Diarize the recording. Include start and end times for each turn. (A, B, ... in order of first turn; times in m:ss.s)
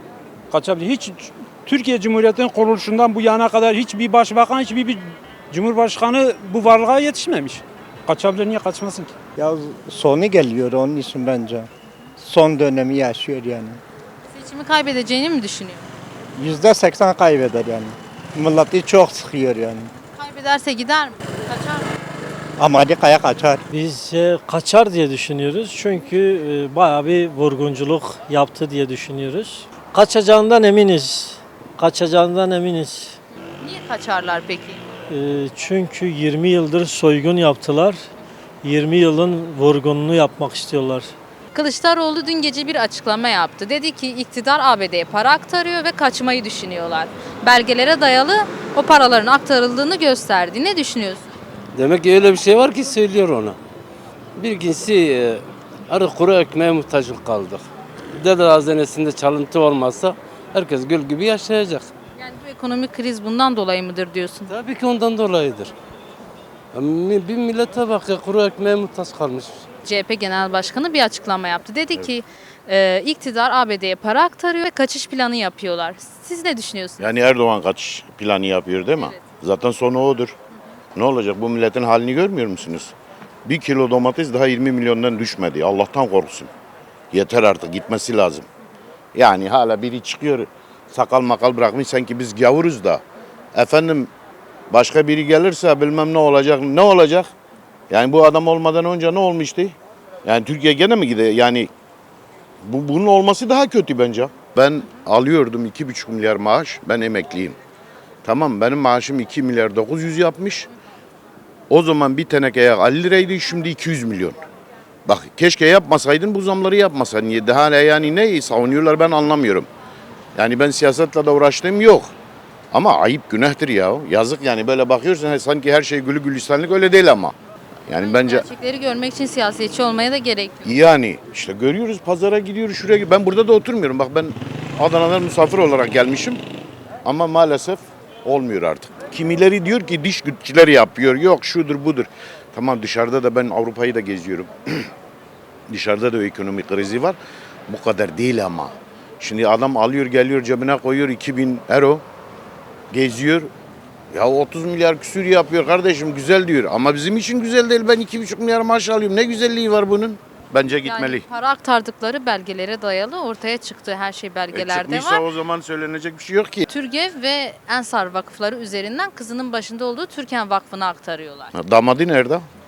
0:00.5-0:09.1 A
0:09.4-0:11.7 B
0:12.2-0:13.8 B
0:14.3-0:15.8 C
0:16.4-0:19.9 B
0:20.1-0:21.9 C
0:22.6-0:23.6 B
0:23.7-0:33.2 D
0:33.6-0:34.8 C
0:35.1-0:38.1 D
0:38.6-0:41.1 D
0:41.5-0:51.3 C
0:51.7-0:53.6 E
0:54.4-0:57.6 E
0:58.2-1:01.9 E
1:02.2-1:04.5 C
1:04.5-1:05.7 E
1:06.7-1:09.6 E
1:09.8-1:17.0 C
1:17.0-1:20.3 F
1:21.0-1:22.9 F
1:23.4-1:26.5 F
1:27.1-1:28.5 F
1:29.1-1:33.0 F
1:33.5-1:34.1 F
1:34.7-1:37.3 F
1:37.9-1:41.7 F
1:42.6-1:47.5 F
1:48.2-1:50.7 F
1:51.7-1:54.4 F
1:55.0-1:59.7 F
2:00.3-2:02.1 F
2:02.7-2:07.3 F
2:07.9-2:08.5 F
2:08.0-2:10.7 C
2:10.6-2:16.4 F
2:17.0-2:24.9 F
2:25.7-2:27.2 F
2:27.7-2:32.0 F
2:32.9-2:33.5 F
2:34.1-2:41.2 F
2:40.8-2:45.3 C
2:44.5-2:46.6 F
2:46.7-2:51.5 C
2:51.5-2:52.4 F